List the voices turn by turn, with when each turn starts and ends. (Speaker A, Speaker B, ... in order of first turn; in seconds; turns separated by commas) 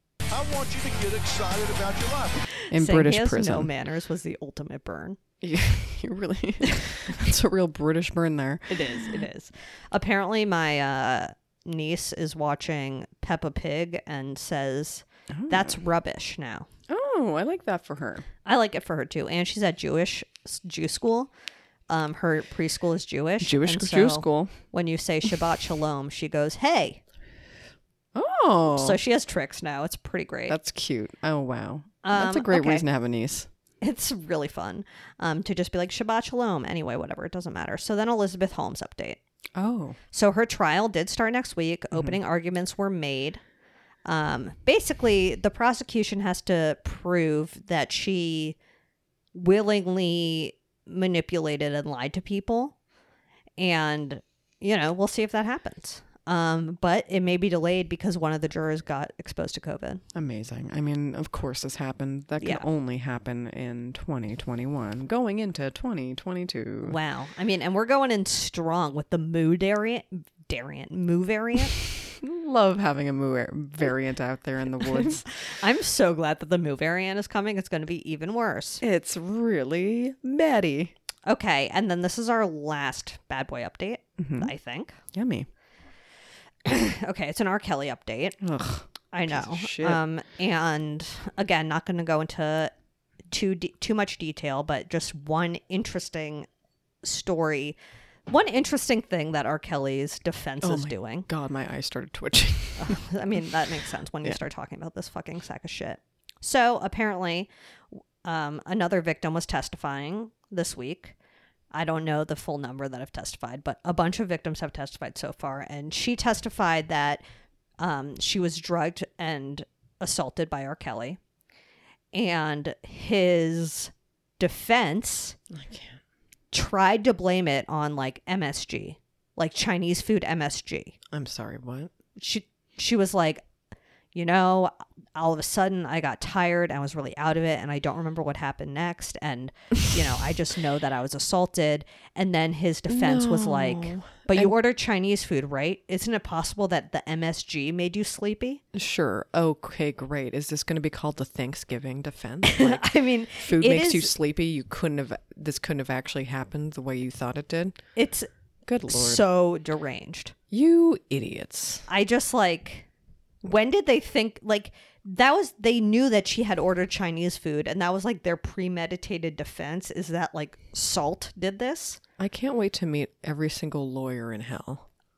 Speaker A: 0.3-2.4, Speaker B: 2.6-5.2, Speaker C: 2.7-3.7, Speaker C: 5.4-9.2, Speaker B: 8.7-16.7, Speaker C: 15.3-15.8, Speaker C: 16.9-18.2, Speaker B: 18.4-21.3, Speaker B: 21.9-27.0, Speaker C: 23.4-24.6, Speaker C: 28.1-29.0, Speaker B: 28.7-30.6, Speaker C: 30.5-33.5, Speaker B: 32.0-32.9, Speaker B: 33.8-39.2, Speaker C: 39.5-40.0, Speaker B: 40.1-43.4, Speaker B: 44.0-48.6, Speaker B: 49.3-52.8, Speaker B: 53.6-60.0, Speaker C: 60.1-67.0, Speaker B: 62.4-62.6, Speaker B: 66.8-71.8, Speaker C: 72.1-75.2, Speaker B: 75.0-78.8, Speaker C: 78.8-80.9, Speaker B: 81.2-85.0, Speaker C: 84.2-84.5, Speaker C: 85.1-85.5, Speaker B: 86.6-88.4, Speaker C: 88.4-90.0, Speaker B: 89.1-92.7, Speaker B: 93.3-96.5, Speaker B: 97.0-97.8, Speaker B: 98.3-101.3, Speaker C: 100.6-103.0, Speaker B: 102.8-107.5, Speaker B: 108.2-111.2, Speaker B: 111.7-117.2, Speaker B: 117.8-121.2, Speaker B: 122.1-125.4, Speaker C: 125.5-126.0, Speaker B: 126.5-130.9, Speaker C: 131.1-131.9, Speaker B: 132.2-133.4, Speaker B: 134.1-148.6, Speaker C: 142.9-144.6, Speaker C: 148.7-157.8, Speaker B: 152.4-154.1, Speaker B: 157.9-158.3, Speaker C: 158.7-159.2, Speaker B: 158.9-160.3, Speaker C: 160.5-161.9, Speaker B: 161.9-162.9, Speaker B: 163.4-172.0, Speaker C: 172.2-174.9